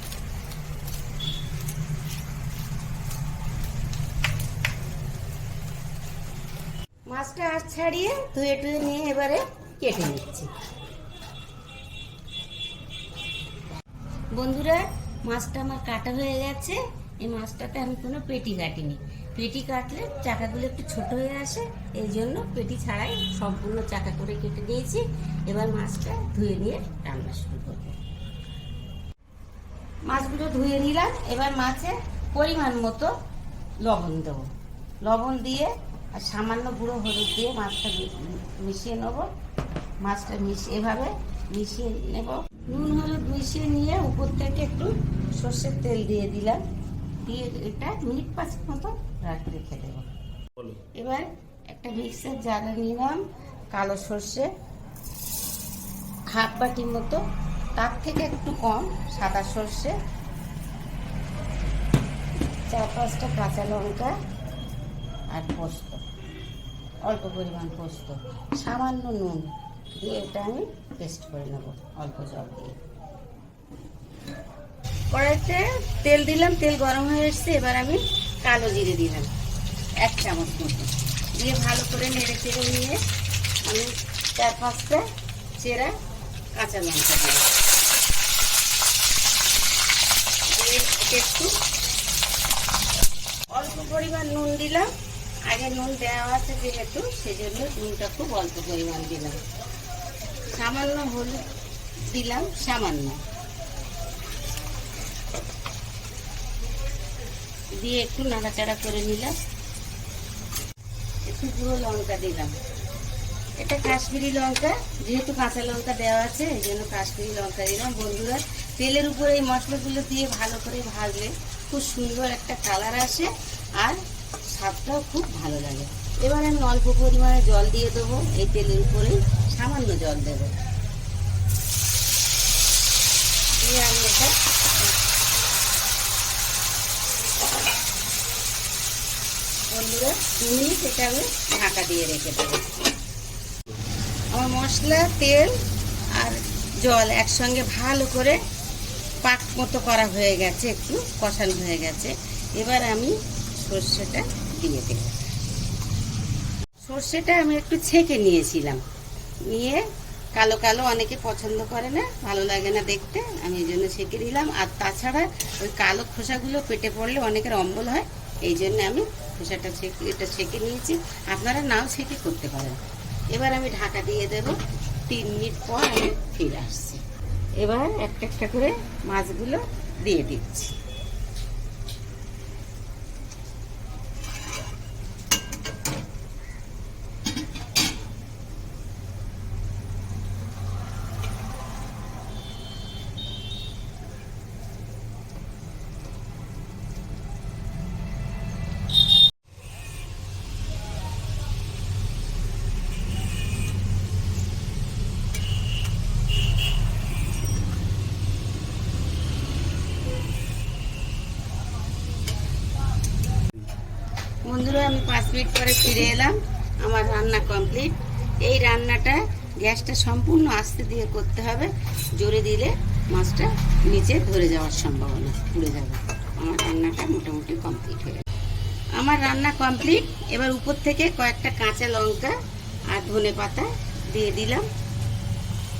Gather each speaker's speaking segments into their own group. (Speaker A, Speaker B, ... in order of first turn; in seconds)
Speaker A: 7.1-10.5, 14.3-28.0, 30.1-33.1, 33.8-34.5, 35.0-39.3, 40.0-46.6, 47.2-50.1, 50.8-53.2, 53.7-54.5, 56.3-57.2, 57.8-60.0, 62.7-64.1, 65.3-66.0, 67.0-72.7, 75.1-79.3, 80.0-83.0, 83.6-85.0, 85.6-85.9, 86.6-87.5, 90.5-91.5, 93.5-94.9, 95.5-99.4, 100.5-101.4, 102.0-103.2, 107.8-109.3, 111.3-112.5, 113.6-130.5, 133.6-134.3, 139.7-142.7, 144.3-145.6, 146.1-148.4, 149.2-155.2, 156.8-158.8, 159.4-172.8, 173.3-174.6, 175.1-177.0, 177.6-180.7, 214.4-228.2, 229.0-232.4, 232.9-234.7